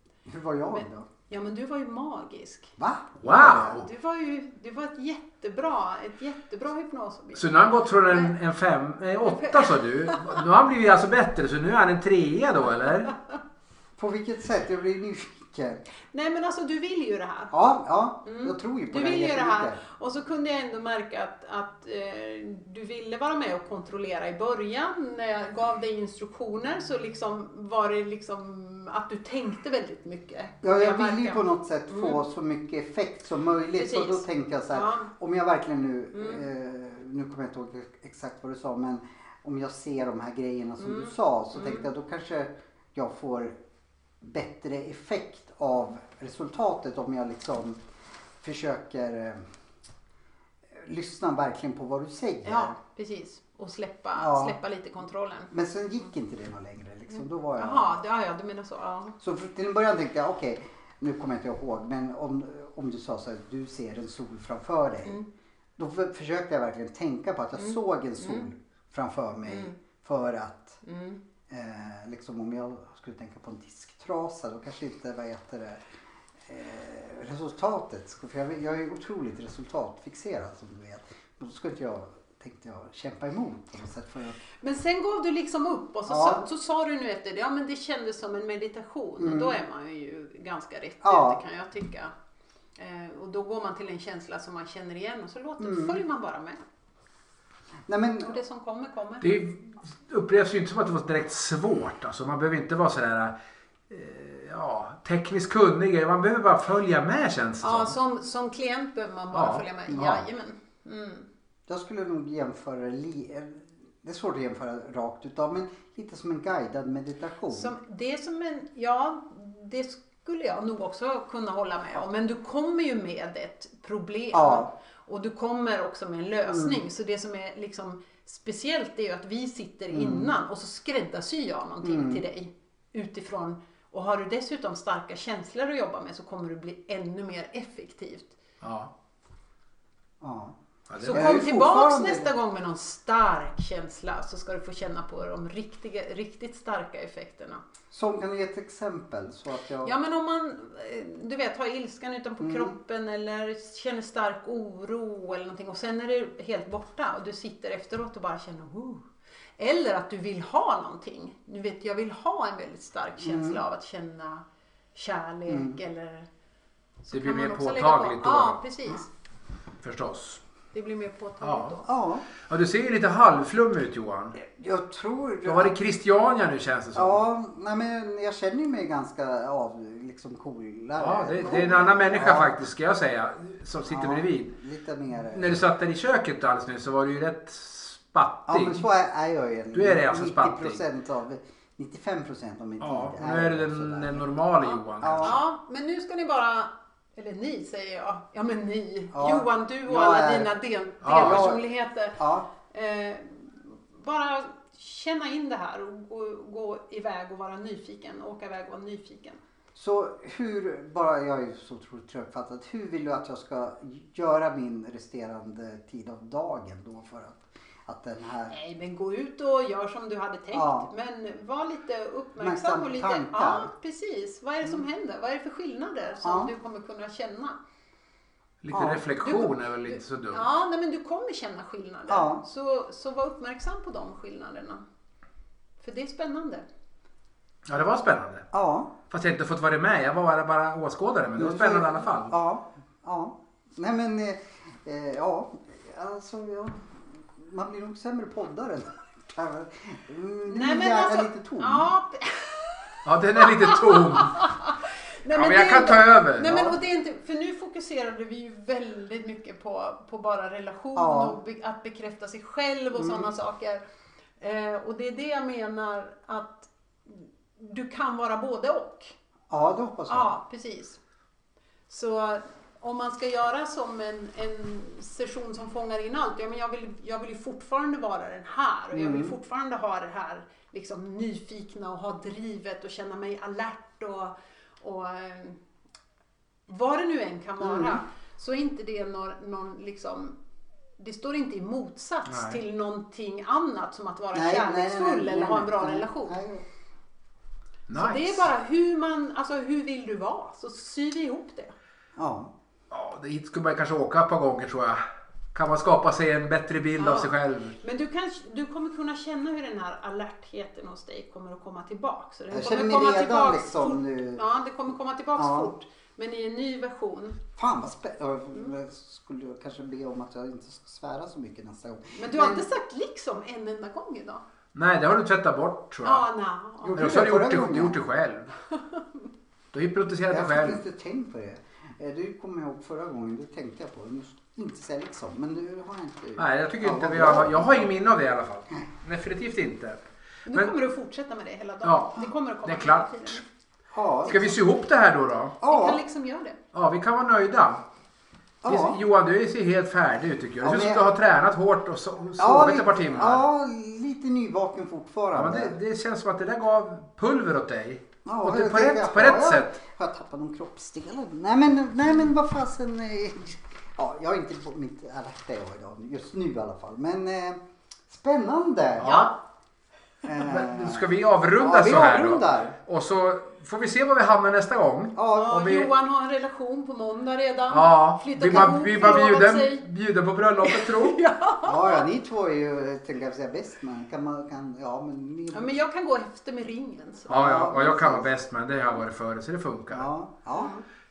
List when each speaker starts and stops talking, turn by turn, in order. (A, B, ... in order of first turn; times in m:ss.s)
0:00.3-0:01.1 A
0:00.7-0:02.7 B
0:02.8-0:03.8 A
0:03.2-0:03.9 C
0:03.7-0:07.4 B
0:07.4-0:13.1 C
0:08.1-0:08.3 B
0:09.2-0:10.4 B
0:14.0-0:15.8 A
0:16.1-0:17.5 B
0:17.5-0:19.8 A
0:18.2-0:32.2 B
0:30.6-0:43.6 A
0:33.8-0:35.1 B
0:36.1-0:36.4 B
0:40.8-0:41.9 B
0:44.2-0:47.8 A
0:48.4-0:49.4 A
0:50.7-0:52.8 A
0:52.4-0:55.5 B
0:54.1-0:54.6 A
0:55.5-0:58.0 A
0:57.1-0:59.2 B
0:59.2-1:05.2 A
1:05.8-1:10.8 A
1:07.6-1:08.5 B
1:09.4-1:09.8 B
1:10.8-1:11.2 B
1:11.5-1:15.9 A
1:16.4-1:24.4 A
1:24.6-1:32.1 B
1:26.1-1:26.4 A
1:29.2-1:29.6 A
1:31.0-1:31.4 A
1:32.8-1:36.6 B
1:35.6-1:36.0 A
1:37.9-1:38.3 A
1:38.2-1:39.3 B
1:39.2-1:43.3 C
1:43.9-1:48.0 C
1:47.6-1:51.3 B
1:49.3-1:50.2 C
1:51.7-1:57.7 A
1:57.5-2:18.4 B
2:04.3-2:04.7 A
2:06.5-2:06.8 A
2:09.9-2:10.3 A
2:11.8-2:12.2 A
2:18.6-2:18.9 C
2:20.2-2:20.6 A
2:20.9-2:21.4 C
2:21.0-2:27.6 B
2:21.1-2:22.3 A
2:27.9-2:29.9 A
2:29.8-2:39.0 B
2:32.4-2:32.8 A
2:39.6-2:44.4 B
2:43.2-2:43.6 A
2:45.0-2:46.3 B
2:45.5-2:45.8 A
2:47.0-2:49.1 B
2:47.1-2:48.6 C
2:49.8-2:50.4 C
2:50.7-2:51.9 B
2:51.4-2:51.8 C
2:51.9-2:52.3 A
2:52.4-2:54.4 C
2:54.4-2:55.7 A
2:55.4-2:57.2 C
2:57.0-3:02.6 A
3:01.0-3:04.5 C
3:03.9-3:05.6 A
3:05.2-3:08.9 C
3:08.5-3:14.3 A
3:09.7-3:10.8 C
3:12.8-3:15.4 C
3:15.0-3:15.4 A
3:15.2-3:22.2 B
3:19.1-3:20.5 A
3:21.0-3:21.5 C
3:21.1-3:21.6 A
3:22.2-3:22.4 A
3:22.7-3:29.4 B
3:29.7-3:38.6 A
3:38.5-3:47.6 B
3:40.5-3:40.9 A
3:42.4-3:43.7 A
3:46.2-3:46.5 A
3:48.6-3:50.4 C
3:48.7-3:49.0 A
3:49.2-3:54.8 B
3:52.1-3:52.4 A
3:55.8-3:56.7 B
3:57.7-3:58.5 C
3:58.5-3:58.9 A
3:59.1-4:02.3 C
4:01.4-4:11.9 A
4:10.4-4:23.8 B
4:13.0-4:14.4 C
4:15.3-4:16.6 C
4:16.4-4:16.7 A
4:21.0-4:21.4 A
4:23.0-4:23.3 A
4:24.4-4:29.1 B
4:29.5-4:30.3 A
4:30.1-4:31.0 B
4:31.9-4:45.6 B
4:38.9-4:39.4 A
4:46.7-4:50.4 B
4:47.6-4:48.0 A
4:51.0-4:56.4 B
4:52.3-4:52.6 C
4:54.3-4:56.7 A
4:57.9-4:58.5 C
4:57.9-5:01.7 B
5:02.2-5:02.5 A
5:02.9-5:05.0 C
5:05.5-5:07.8 C
5:07.0-5:17.4 B
5:12.5-5:14.4 A
5:15.4-5:15.7 A
5:17.6-5:22.6 A
5:22.2-5:24.4 B
5:24.7-5:26.2 C
5:26.0-5:27.0 B
5:26.8-5:28.0 A
5:27.0-5:28.5 C
5:29.7-5:30.8 C
5:30.3-5:37.9 A
5:36.4-5:40.0 C
5:40.5-5:43.4 B
5:41.8-5:43.4 C
5:43.9-5:44.5 A
5:44.2-5:45.6 C
5:44.3-5:44.6 B
5:45.6-5:46.0 A
5:45.6-5:46.6 B
5:46.7-5:47.8 C
5:48.6-5:49.0 A
5:48.7-5:53.4 C
5:50.6-5:51.0 A
5:52.4-5:55.8 A
5:55.3-5:59.8 C
5:58.3-6:09.3 A
6:09.0-6:09.3 C
6:09.0-6:09.3 B
6:10.2-6:11.0 A
6:10.4-6:15.9 C
6:11.6-6:12.8 A
6:15.2-6:15.6 A
6:15.3-6:19.8 B
6:17.7-6:21.2 C
6:20.6-6:22.0 B
6:21.6-6:25.7 A
6:25.5-6:27.4 B
6:27.3-6:28.3 A
6:27.3-6:30.1 C
6:29.9-6:30.7 A
6:30.5-6:30.8 B